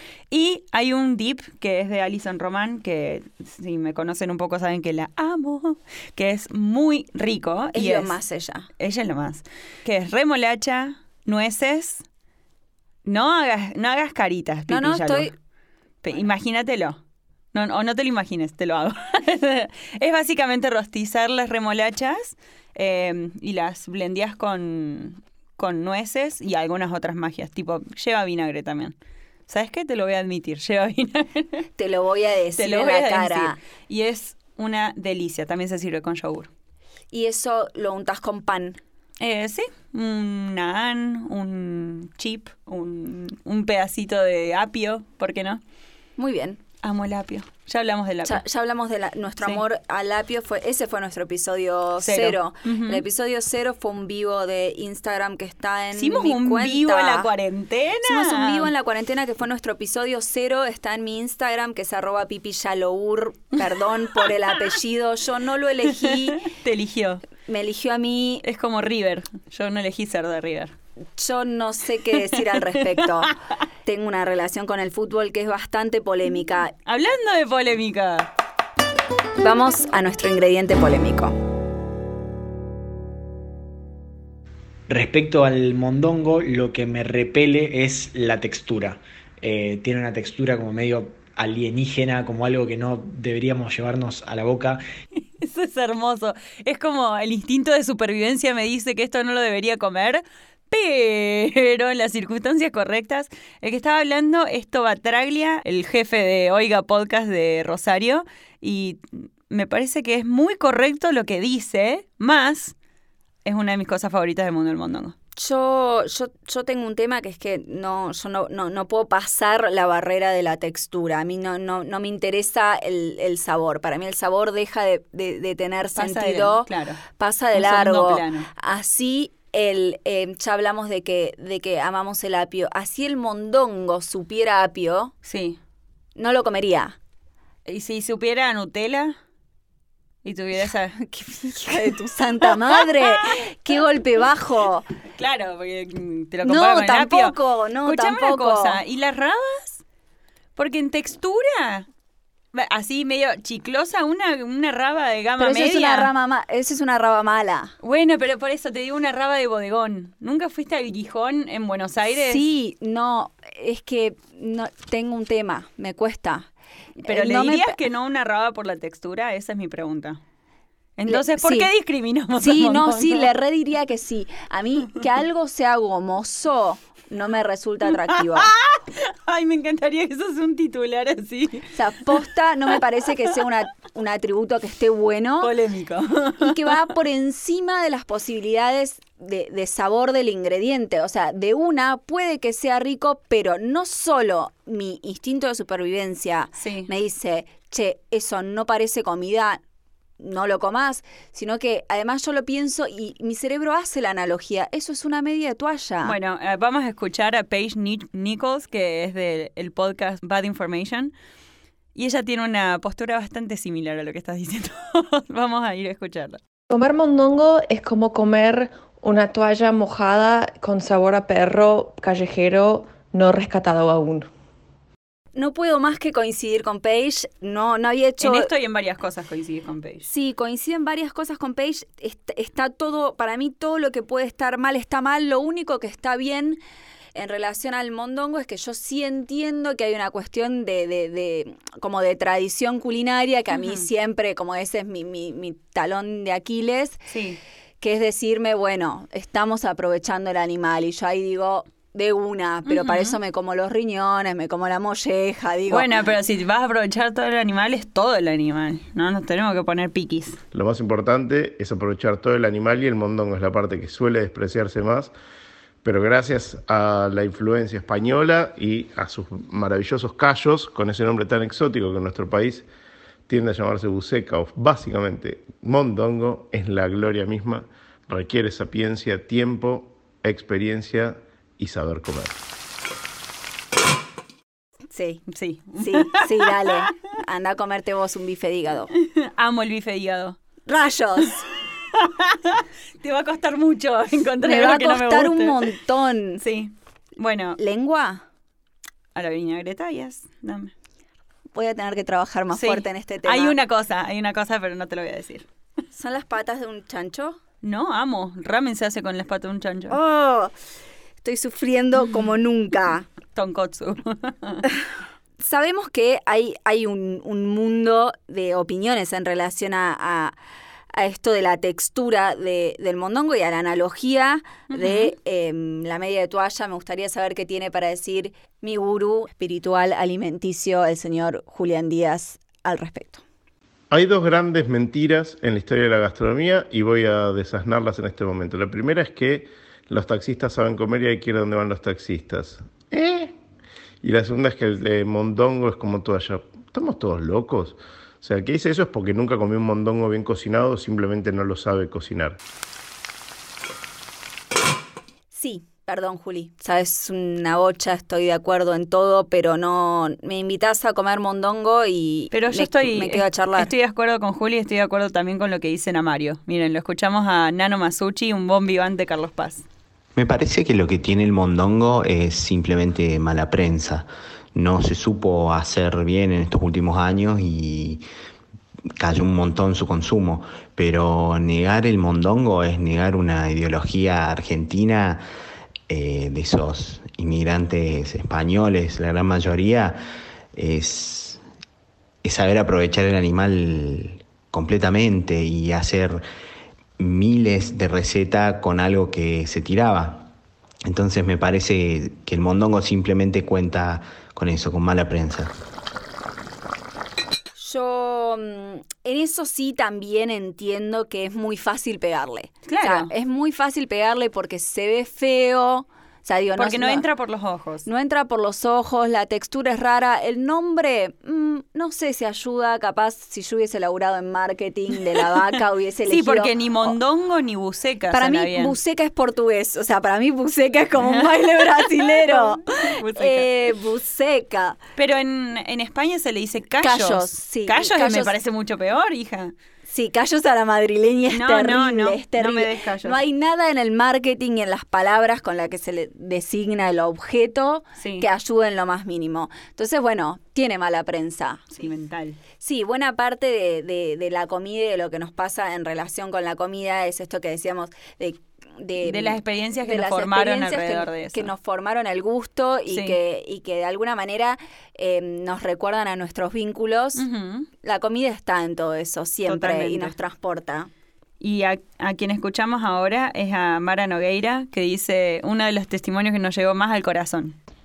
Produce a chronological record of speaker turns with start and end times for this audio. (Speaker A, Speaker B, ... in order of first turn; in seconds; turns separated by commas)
Speaker A: 0.3-8.2, Speaker B: 7.7-8.7, Speaker A: 8.8-12.0, Speaker A: 13.1-15.3, Speaker B: 14.7-15.3, Speaker A: 16.0-17.0, Speaker A: 17.5-28.9, Speaker A: 29.5-31.6, Speaker B: 31.8-33.6, Speaker A: 32.6-36.5, Speaker B: 37.1-38.8, Speaker A: 39.2-45.6, Speaker B: 46.2-46.6, Speaker A: 46.8-48.4, Speaker B: 48.2-57.3, Speaker A: 52.0-53.0, Speaker A: 55.9-58.7, Speaker B: 58.0-66.4, Speaker A: 66.0-67.2, Speaker B: 67.5-68.4, Speaker A: 68.4-70.7, Speaker B: 71.2-73.3, Speaker A: 72.1-72.5, Speaker B: 73.8-76.7, Speaker A: 76.8-78.3, Speaker B: 79.4-81.3, Speaker C: 84.9-94.8, Speaker A: 95.4-112.8, Speaker A: 113.4-115.1, Speaker B: 115.4-135.1, Speaker A: 125.9-128.5, Speaker A: 135.2-135.6, Speaker B: 136.2-136.9, Speaker A: 137.7-139.2, Speaker A: 140.2-141.0, Speaker B: 141.0-144.9, Speaker A: 145.1-149.8, Speaker B: 146.4-148.8, Speaker A: 150.6-151.8, Speaker A: 152.5-156.1, Speaker B: 155.4-157.7, Speaker A: 157.8-162.4, Speaker B: 162.1-166.5, Speaker B: 167.0-167.8, Speaker A: 167.1-170.2, Speaker A: 171.0-173.3, Speaker B: 171.1-171.7, Speaker B: 172.3-178.5, Speaker A: 178.1-182.7, Speaker B: 181.7-185.5, Speaker A: 185.4-186.7, Speaker B: 186.4-199.6, Speaker A: 196.6-196.9, Speaker B: 200.2-206.2, Speaker A: 206.0-211.1, Speaker A: 211.9-216.4, Speaker D: 216.7-224.3, Speaker B: 225.3-228.5, Speaker A: 228.2-230.1, Speaker B: 230.1-236.6, Speaker B: 237.2-247.0, Speaker A: 243.6-243.8, Speaker A: 247.1-247.4, Speaker B: 247.8-255.9, Speaker A: 252.7-253.2, Speaker A: 255.7-260.4, Speaker E: 260.5-265.1, Speaker E: 265.8-272.7, Speaker E: 273.3-282.3, Speaker B: 284.9-285.2, Speaker A: 285.3-286.7, Speaker B: 285.8-288.9, Speaker A: 288.9-290.4, Speaker B: 290.7-291.4, Speaker A: 291.9-295.7, Speaker B: 294.4-296.4, Speaker A: 296.4-297.6, Speaker B: 297.6-298.2, Speaker A: 299.1-300.7, Speaker B: 301.5-303.6, Speaker A: 302.5-305.4, Speaker B: 305.9-307.4, Speaker A: 307.6-310.0, Speaker B: 309.9-310.5, Speaker B: 311.2-313.1, Speaker A: 313.3-314.7, Speaker B: 315.4-320.4, Speaker B: 320.9-333.2, Speaker A: 324.7-325.1, Speaker E: 333.9-343.3, Speaker E: 344.0-352.4, Speaker B: 355.3-363.7, Speaker A: 362.3-369.6, Speaker F: 370.2-378.0, Speaker F: 379.0-385.2, Speaker F: 385.9-390.0, Speaker F: 390.6-391.4, Speaker F: 392.2-396.2, Speaker F: 397.0-400.3, Speaker F: 400.9-405.5, Speaker B: 407.6-417.1, Speaker A: 412.7-413.1, Speaker A: 416.6-417.9, Speaker B: 417.8-427.0, Speaker A: 426.1-428.7, Speaker B: 428.1-434.8, Speaker A: 431.0-433.5, Speaker A: 434.9-439.5, Speaker B: 436.8-438.3, Speaker B: 439.8-451.6, Speaker A: 441.3-443.2, Speaker A: 448.0-448.2, Speaker A: 451.7-452.4, Speaker B: 452.6-467.2, Speaker A: 459.0-461.5, Speaker A: 462.9-463.2, Speaker A: 467.2-467.7, Speaker B: 467.8-470.9, Speaker A: 469.4-470.1, Speaker A: 471.4-477.6